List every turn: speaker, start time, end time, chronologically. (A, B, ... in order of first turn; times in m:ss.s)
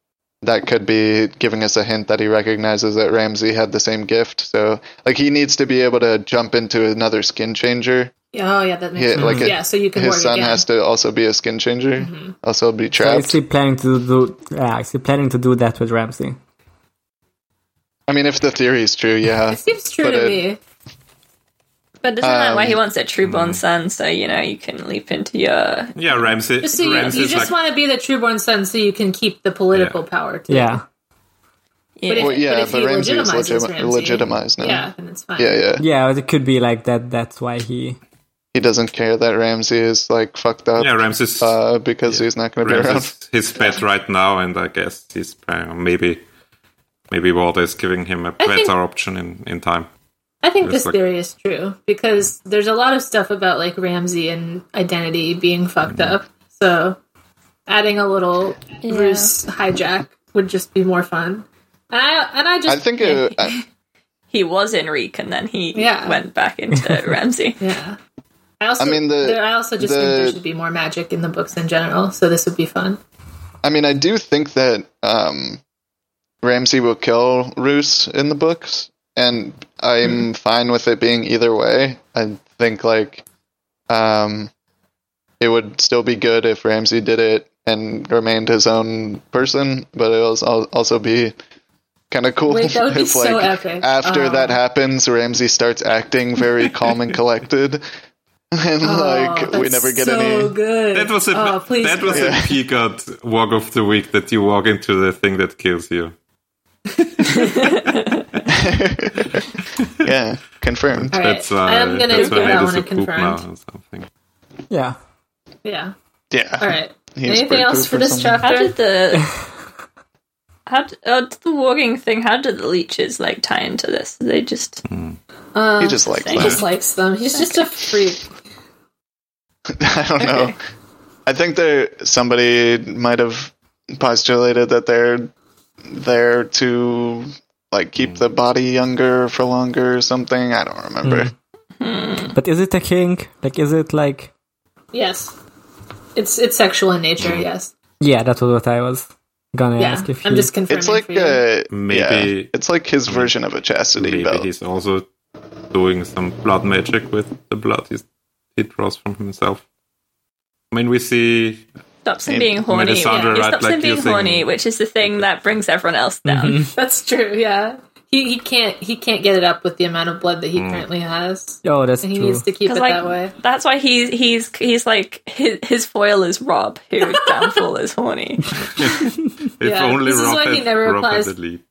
0:00.4-0:08.1 A
0:08.3-0:10.6 B
0:09.0-0:13.4 A
0:09.2-0:09.5 C
0:12.0-0:12.4 B
0:13.0-0:16.4 C
0:18.1-0:20.4 A
0:19.5-0:20.6 B
0:22.0-0:25.9 D
0:22.2-0:22.8 A
0:23.2-0:23.6 E
0:26.0-0:27.6 E
0:26.6-0:30.8 B
0:26.9-0:27.4 D
0:29.7-0:30.0 E
0:30.5-0:30.8 C
0:32.0-0:32.4 D
0:32.1-0:35.6 B
0:32.1-0:35.8 A
0:35.8-0:38.0 C
0:38.5-0:43.1 A
0:40.8-0:46.2 E
0:43.6-0:43.8 B
0:47.1-0:49.9 E
0:48.4-0:48.7 B
0:50.4-0:57.0 B
0:50.6-0:51.0 E
0:55.9-0:56.2 E
0:57.7-1:03.2 B
0:58.8-0:59.3 D
1:02.7-1:03.6 A
1:03.0-1:03.6 D
1:04.3-1:07.6 D
1:05.8-1:06.2 B
1:06.8-1:07.1 C
1:07.6-1:08.0 B
1:08.6-1:13.0 B
1:08.8-1:10.4 A
1:13.6-1:15.6 A
1:16.4-1:23.2 A
1:23.9-1:24.5 A
1:25.4-1:31.4 A
1:32.1-1:37.8 A
1:32.5-1:34.6 B
1:38.5-1:40.6 A
1:38.8-1:42.4 B
1:40.9-1:46.2 E
1:42.1-1:42.5 A
1:47.3-1:48.4 E
1:47.4-1:48.1 D
1:48.5-1:51.2 A
1:50.9-1:54.1 E
1:51.1-1:53.4 B
1:52.1-1:52.6 D
1:54.7-1:55.0 C
1:55.6-1:55.9 B
1:56.3-1:58.4 A
1:56.6-1:58.7 B
1:58.4-1:59.3 D
2:00.7-2:04.8 D
2:04.9-2:05.2 E
2:05.5-2:08.2 B
2:05.8-2:06.6 A
2:06.1-2:06.6 D
2:06.3-2:06.6 E
2:09.8-2:10.6 A
2:11.3-2:15.3 A
2:15.9-2:21.3 A
2:21.0-2:21.3 C
2:21.8-2:22.3 D
2:22.3-2:24.3 C
2:24.9-2:25.4 B
2:26.2-2:27.7 B
2:27.2-2:27.5 E
2:28.0-2:30.5 C
2:29.8-2:31.4 B
2:30.7-2:34.5 A
2:31.7-2:32.5 E
2:33.1-2:33.3 E
2:34.0-2:35.1 E
2:35.7-2:39.7 E
2:40.7-2:41.7 E
2:42.0-2:46.6 D
2:42.3-2:42.5 A
2:42.6-2:44.5 E
2:43.1-2:43.4 B
2:46.3-2:46.7 C
2:46.8-2:53.3 B
2:50.6-2:50.9 E
2:51.6-2:52.5 C
2:52.6-2:58.6 D
2:58.6-3:01.6 E
2:59.6-3:01.3 B